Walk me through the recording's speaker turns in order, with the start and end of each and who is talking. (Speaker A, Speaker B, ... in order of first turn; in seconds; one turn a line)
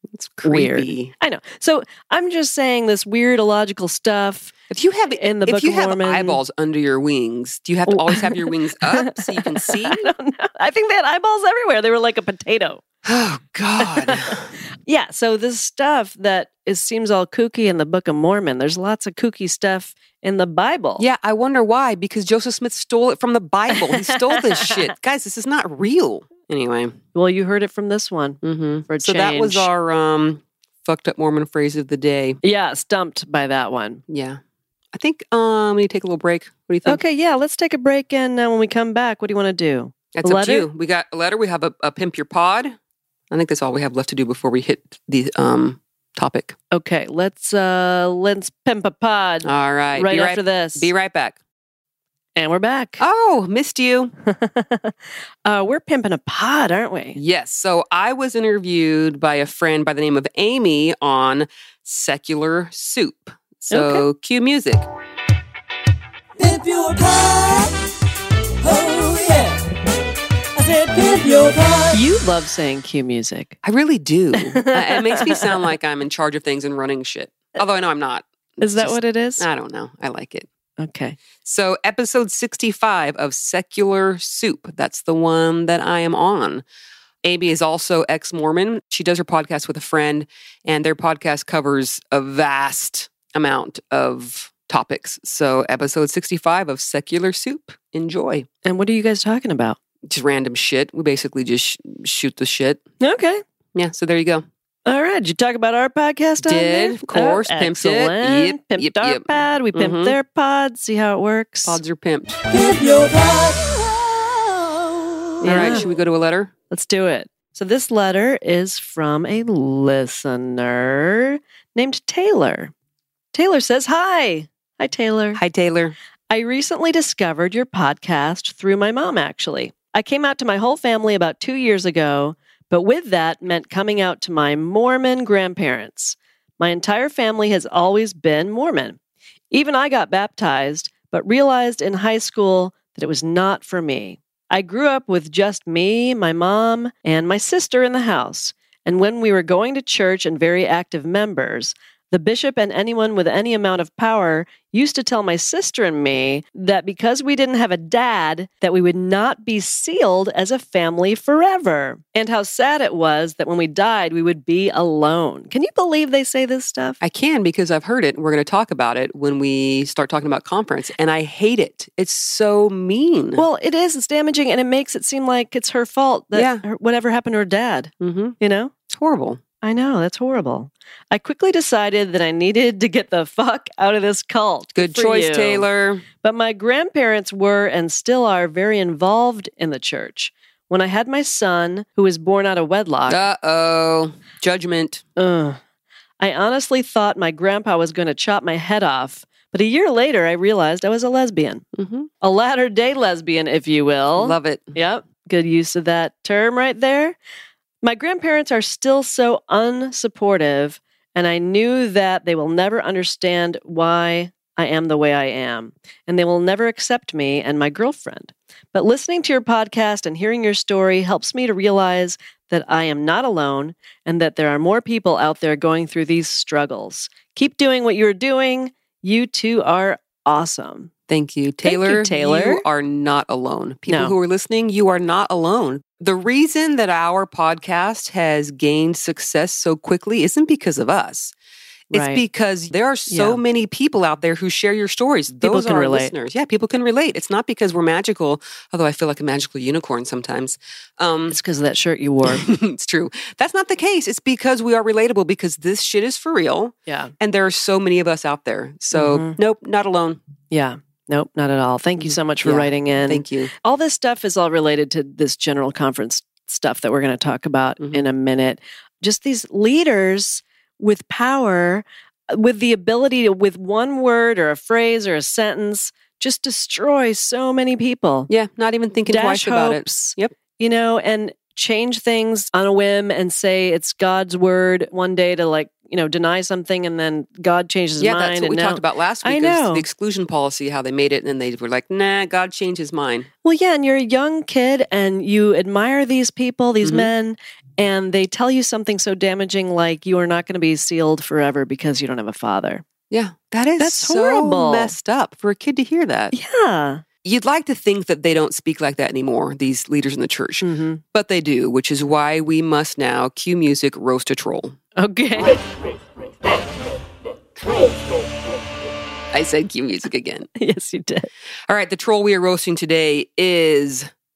Speaker A: 0.1-1.1
Speaker B: 0.4-4.5
Speaker A: 4.7-10.1
Speaker B: 5.2-6.4
Speaker B: 7.9-12.8
Speaker A: 13.0-14.5
Speaker B: 13.8-21.1
Speaker A: 21.0-27.0
Speaker B: 23.7-24.9
Speaker B: 27.1-29.7
Speaker A: 28.4-32.4
Speaker B: 32.4-34.0
Speaker A: 34.1-34.4
Speaker A: 34.9-37.0
Speaker B: 36.9-40.7
Speaker A: 40.1-42.8
Speaker A: 43.3-46.6
Speaker B: 46.7-50.9
Speaker A: 49.5-51.4
Speaker B: 52.4-53.0
Speaker A: 53.0-54.1
Speaker B: 54.3-57.2
Speaker A: 57.2-64.8
Speaker B: 63.7-64.0
Speaker C: 66.4-67.8
Speaker C: 68.6-69.7
Speaker C: 70.6-72.0
Speaker B: 71.9-73.6
Speaker A: 73.6-80.5
Speaker B: 74.4-75.6
Speaker B: 78.6-79.5
Speaker B: 80.8-81.2
Speaker A: 81.4-86.6
Speaker A: 87.2-98.5
Speaker B: 98.7-99.8
Speaker A: 100.1-102.8
Speaker B: 103.0-103.4
Speaker A: 103.8-104.5
Speaker B: 104.9-111.8
Speaker A: 106.4-110.2
Speaker A: 111.7-112.4
Speaker C: 112.5-115.7
Speaker B: 115.4-115.9
Speaker A: 115.5-116.5
Speaker B: 116.7-122.7
Speaker B: 123.3-125.4
Speaker A: 125.4-126.0
Speaker B: 126.3-139.0
Speaker B: 139.5-167.0
Speaker A: 167.0-173.4
Speaker B: 173.4-178.7
Speaker A: 176.3-176.6
Speaker A: 178.0-178.4
Speaker A: 178.9-179.4
Speaker B: 179.6-185.7
Speaker A: 184.8-186.1
Speaker B: 186.2-193.2
Speaker A: 193.1-195.0
Speaker B: 195.2-195.6
Speaker B: 196.2-201.7
Speaker A: 201.8-202.1
Speaker B: 202.2-207.2
Speaker A: 204.2-204.8
Speaker B: 207.8-230.9
Speaker A: 231.1-241.3
Speaker B: 231.6-232.6
Speaker B: 233.9-234.1
Speaker A: 241.9-251.4
Speaker B: 241.9-242.2
Speaker B: 243.1-243.4
Speaker B: 245.4-246.1
Speaker B: 251.3-252.5
Speaker A: 252.3-260.2
Speaker B: 256.9-257.1
Speaker B: 258.9-259.4
Speaker B: 260.5-278.3
Speaker A: 262.4-263.5
Speaker A: 278.3-280.3
Speaker B: 279.1-289.9
Speaker A: 288.0-293.3
Speaker B: 293.4-302.9
Speaker A: 296.8-297.1
Speaker A: 303.1-306.3
Speaker B: 303.8-304.9
Speaker B: 306.3-307.0
Speaker A: 307.2-314.8
Speaker B: 310.6-311.0
Speaker B: 315.0-315.6
Speaker A: 319.3-320.5
Speaker B: 320.6-321.3
Speaker A: 321.7-324.1